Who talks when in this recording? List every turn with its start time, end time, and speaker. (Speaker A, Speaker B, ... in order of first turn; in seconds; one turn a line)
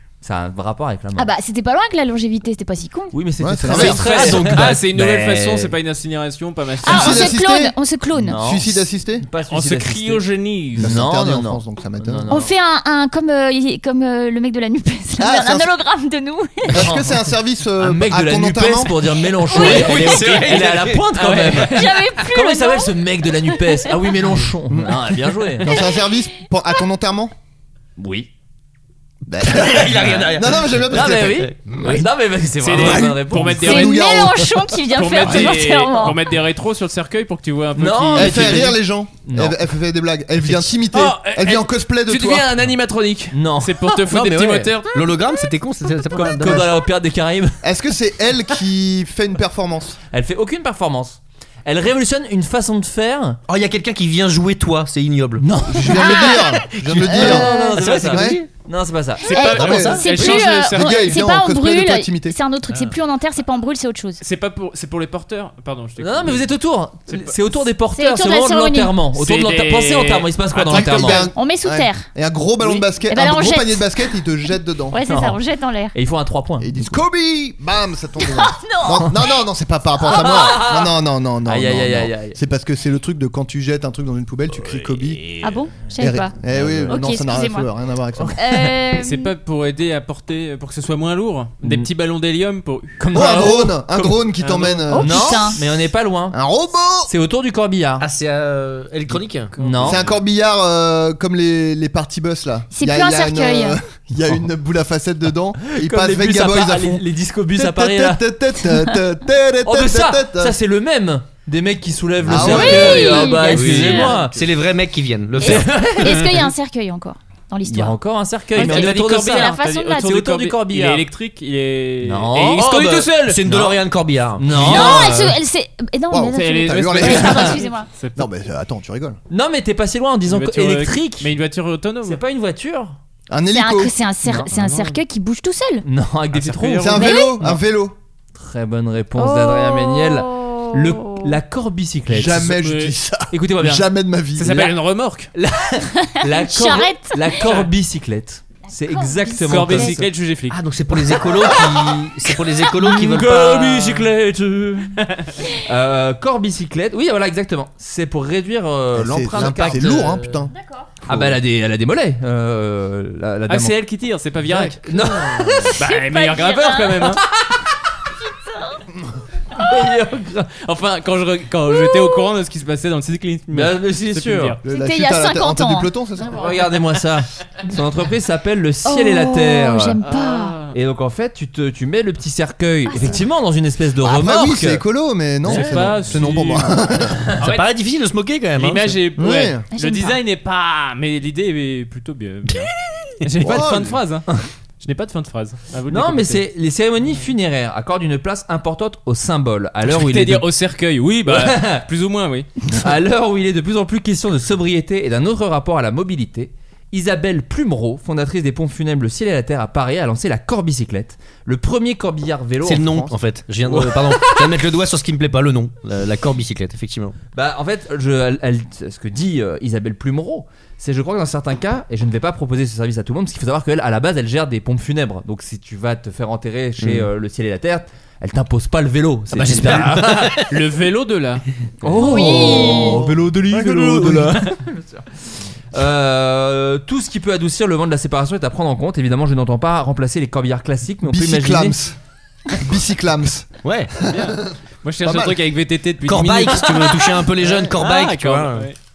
Speaker A: 0.2-1.3
Speaker B: 1.1-3.2
Speaker A: 3.1-5.7
Speaker C: 3.4-4.2
Speaker D: 3.7-7.4
Speaker E: 3.7-5.5
Speaker B: 6.8-8.4
Speaker C: 6.8-7.8
Speaker A: 8.2-12.5
Speaker C: 8.3-9.3
Speaker D: 9.5-11.0
Speaker C: 10.8-12.3
Speaker B: 12.3-16.9
Speaker C: 15.2-15.7
Speaker C: 16.7-19.1
Speaker A: 16.7-17.1
Speaker A: 17.8-25.8
Speaker E: 19.6-21.3
Speaker D: 19.9-20.5
Speaker D: 21.2-21.8
Speaker B: 21.6-24.1
Speaker C: 24.7-27.3
Speaker A: 28.0-28.3
Speaker C: 29.3-32.1
Speaker E: 29.4-31.3
Speaker A: 30.9-33.7
Speaker D: 32.6-34.0
Speaker C: 32.7-34.5
Speaker B: 33.6-36.2
Speaker D: 34.9-38.7
Speaker A: 37.8-39.6
Speaker C: 38.1-42.5
Speaker D: 40.9-45.0
Speaker A: 43.3-44.1
Speaker E: 44.1-46.8
Speaker A: 46.1-47.6
Speaker C: 47.6-50.0
Speaker A: 50.1-53.4
Speaker E: 53.5-55.5
Speaker A: 55.4-59.5
Speaker C: 55.7-57.5
Speaker B: 56.0-56.5
Speaker E: 56.2-58.5
Speaker B: 57.2-57.9
Speaker C: 58.0-58.4
Speaker D: 59.3-61.2
Speaker B: 59.3-64.2
Speaker E: 59.3-60.0
Speaker C: 59.6-62.4
Speaker D: 62.7-63.0
Speaker D: 64.2-66.5
Speaker A: 66.0-71.3
Speaker D: 67.1-67.6
Speaker B: 67.9-69.1
Speaker D: 69.1-71.3
Speaker C: 70.7-75.0
Speaker B: 71.2-72.1
Speaker B: 73.1-74.1
Speaker B: 74.9-76.0
Speaker A: 75.0-75.4
Speaker A: 75.9-76.7
Speaker C: 76.6-85.3
Speaker B: 78.2-79.2
Speaker A: 80.0-82.4
Speaker B: 85.4-87.7
Speaker C: 86.0-88.4
Speaker A: 88.2-88.7
Speaker B: 88.4-89.3
Speaker D: 89.0-93.5
Speaker A: 91.6-91.9
Speaker A: 93.0-94.2
Speaker C: 93.1-95.4
Speaker D: 94.4-94.9
Speaker B: 94.9-95.6
Speaker A: 94.9-96.4
Speaker C: 96.3-97.1
Speaker A: 97.1-98.1
Speaker E: 98.0-99.5
Speaker D: 99.5-100.2
Speaker A: 99.6-100.0
Speaker C: 99.8-110.5
Speaker B: 102.7-103.8
Speaker A: 105.6-108.2
Speaker A: 109.7-114.4
Speaker C: 112.2-113.5
Speaker B: 112.4-114.2
Speaker E: 113.5-116.5
Speaker B: 115.4-118.0
Speaker A: 115.4-116.2
Speaker A: 117.7-121.1
Speaker B: 118.5-120.2
Speaker D: 118.6-123.5
Speaker A: 122.0-122.8
Speaker E: 122.6-124.8
Speaker A: 124.4-125.3
Speaker B: 124.6-127.9
Speaker C: 126.1-127.6
Speaker D: 126.3-128.3
Speaker A: 127.1-127.5
Speaker C: 128.2-129.2
Speaker A: 129.3-131.3
Speaker D: 130.3-132.2
Speaker A: 132.0-133.0
Speaker C: 133.3-133.9
Speaker B: 133.5-135.8
Speaker A: 134.2-134.9
Speaker A: 135.8-137.6
Speaker D: 136.3-137.1
Speaker C: 136.8-137.9
Speaker B: 136.9-137.4
Speaker A: 138.3-142.6
Speaker B: 139.2-141.3
Speaker C: 142.1-144.7
Speaker D: 142.5-143.0
Speaker A: 143.3-143.9
Speaker D: 144.4-145.3
Speaker A: 144.4-144.7
Speaker A: 145.3-150.1
Speaker B: 145.9-147.5
Speaker D: 147.4-147.7
Speaker B: 148.7-150.0
Speaker D: 149.4-150.6
Speaker E: 150.5-154.0
Speaker B: 151.4-151.8
Speaker A: 152.8-154.9
Speaker D: 155.0-155.3
Speaker A: 155.6-160.1
Speaker C: 158.9-160.5
Speaker E: 159.3-160.4
Speaker B: 160.6-160.9
Speaker A: 161.1-163.8
Speaker C: 161.1-161.4
Speaker D: 163.5-167.2
Speaker A: 164.4-165.8
Speaker B: 165.8-167.2
Speaker A: 167.2-167.6
Speaker B: 168.3-168.8
Speaker A: 169.6-170.4
Speaker D: 169.6-174.6
Speaker A: 173.5-174.6
Speaker C: 174.6-176.5
Speaker B: 174.7-175.9
Speaker A: 176.3-180.0
Speaker B: 178.8-180.6
Speaker D: 180.0-180.8
Speaker A: 180.7-184.8
Speaker B: 182.9-183.2
Speaker C: 184.0-187.2
Speaker D: 185.5-186.7
Speaker A: 185.5-185.9
Speaker E: 187.4-189.0
Speaker D: 188.6-192.7
Speaker C: 189.2-189.7
Speaker B: 189.7-190.2
Speaker D: 193.2-194.2
Speaker C: 193.4-194.0
Speaker D: 194.8-196.4
Speaker A: 195.9-200.5
Speaker D: 199.8-202.5
Speaker A: 201.3-201.8
Speaker A: 202.7-213.1
Speaker E: 212.6-217.2
Speaker A: 213.7-214.6
Speaker A: 217.3-230.3
Speaker E: 226.8-227.1
Speaker E: 229.3-230.5
Speaker D: 229.7-231.4
Speaker A: 231.8-235.1
Speaker B: 232.0-233.0
Speaker C: 232.2-234.5
Speaker A: 235.7-241.8
Speaker C: 241.0-242.0
Speaker C: 242.6-245.4
Speaker E: 243.6-243.9
Speaker D: 244.1-247.1
Speaker E: 246.0-248.7
Speaker C: 247.4-247.8
Speaker D: 247.7-248.8